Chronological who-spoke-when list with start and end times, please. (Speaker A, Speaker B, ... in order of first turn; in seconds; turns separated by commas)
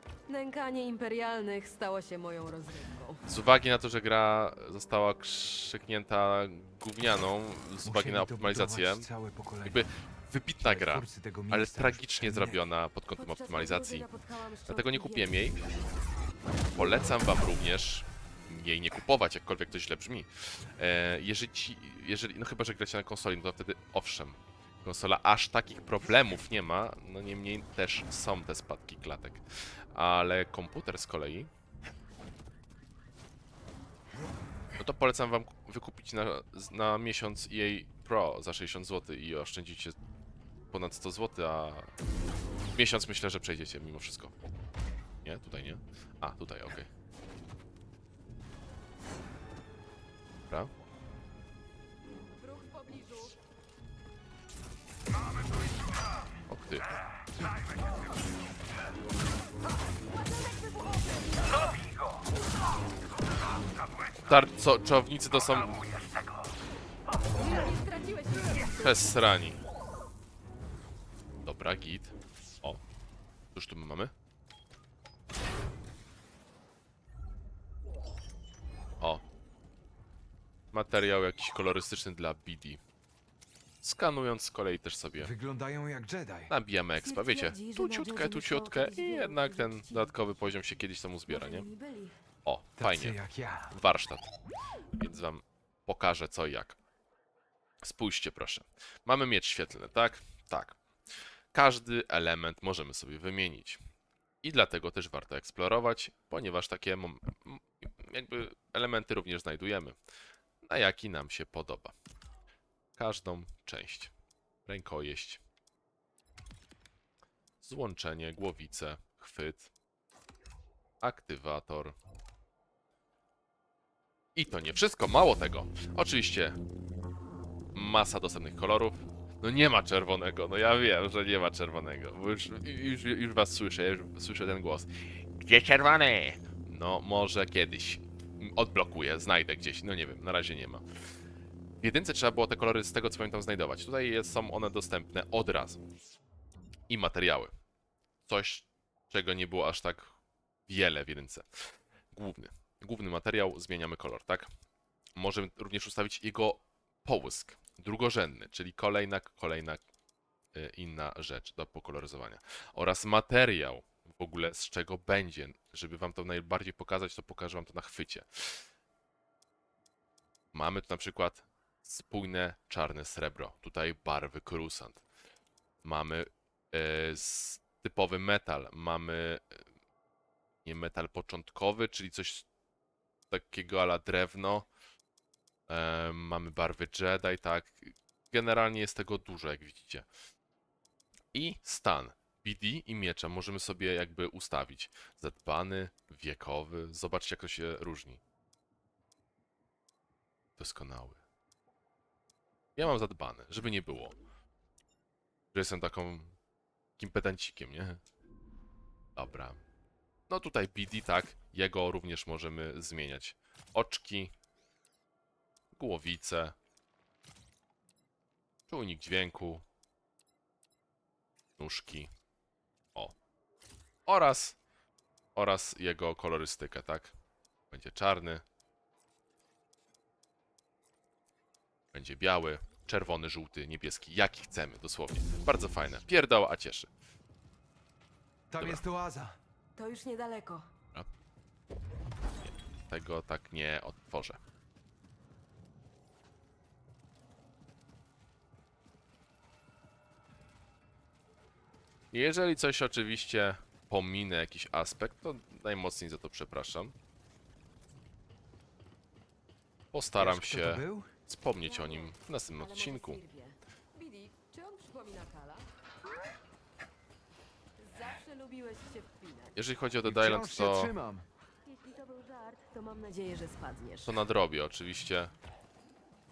Speaker A: 0.3-3.2, Speaker B: 3.2-9.1, Speaker C: 7.8-9.8, Speaker B: 9.6-14.1, Speaker C: 10.6-12.6, Speaker A: 13.2-15.5, Speaker B: 14.7-15.6, Speaker B: 16.7-29.4, Speaker B: 29.9-31.5, Speaker B: 34.8-40.0, Speaker B: 40.7-41.9, Speaker B: 42.7-44.3, Speaker B: 45.2-46.9, Speaker A: 52.4-53.3, Speaker B: 56.5-56.9, Speaker A: 60.0-61.8, Speaker B: 64.2-65.8, Speaker A: 67.4-69.1, Speaker B: 68.8-69.6, Speaker B: 71.4-72.8, Speaker B: 73.5-74.1, Speaker B: 80.7-82.8, Speaker B: 83.8-85.3, Speaker C: 85.2-86.5, Speaker B: 86.5-91.7, Speaker A: 87.0-90.1, Speaker A: 91.3-92.2, Speaker B: 92.4-93.2, Speaker C: 92.8-93.8, Speaker B: 93.7-94.3, Speaker B: 95.0-96.8, Speaker B: 97.8-100.8, Speaker B: 101.5-103.8, Speaker B: 104.4-110.0, Speaker B: 110.6-111.9, Speaker B: 113.0-114.1, Speaker B: 114.7-115.4, Speaker B: 117.6-119.7, Speaker B: 121.0-122.0, Speaker B: 124.3-126.6, Speaker B: 127.7-140.8, Speaker B: 141.8-145.8, Speaker B: 146.9-147.5, Speaker B: 148.2-150.1, Speaker B: 150.7-154.5, Speaker B: 155.2-159.8, Speaker B: 160.5-168.7, Speaker B: 170.5-175.0, Speaker B: 175.8-179.6, Speaker B: 180.6-182.4, Speaker B: 183.3-184.7, Speaker B: 185.7-190.1, Speaker B: 191.3-198.2, Speaker B: 200.6-201.2, Speaker B: 202.8-204.2, Speaker B: 205.5-206.3, Speaker B: 207.0-208.0, Speaker B: 209.2-209.6, Speaker B: 210.3-214.3, Speaker B: 215.7-216.5, Speaker B: 218.7-219.6, Speaker B: 221.6-222.1, Speaker B: 224.1-224.6, Speaker B: 225.3-227.1, Speaker B: 227.7-228.4, Speaker B: 231.9-236.9, Speaker C: 238.5-239.4, Speaker A: 239.8-240.7, Speaker B: 242.4-244.4, Speaker B: 252.1-256.9, Speaker B: 259.9-263.2, Speaker C: 260.2-261.1, Speaker A: 261.6-265.7, Speaker A: 267.8-269.6, Speaker B: 269.6-270.9, Speaker C: 270.0-271.2, Speaker A: 271.6-274.1, Speaker B: 274.1-275.3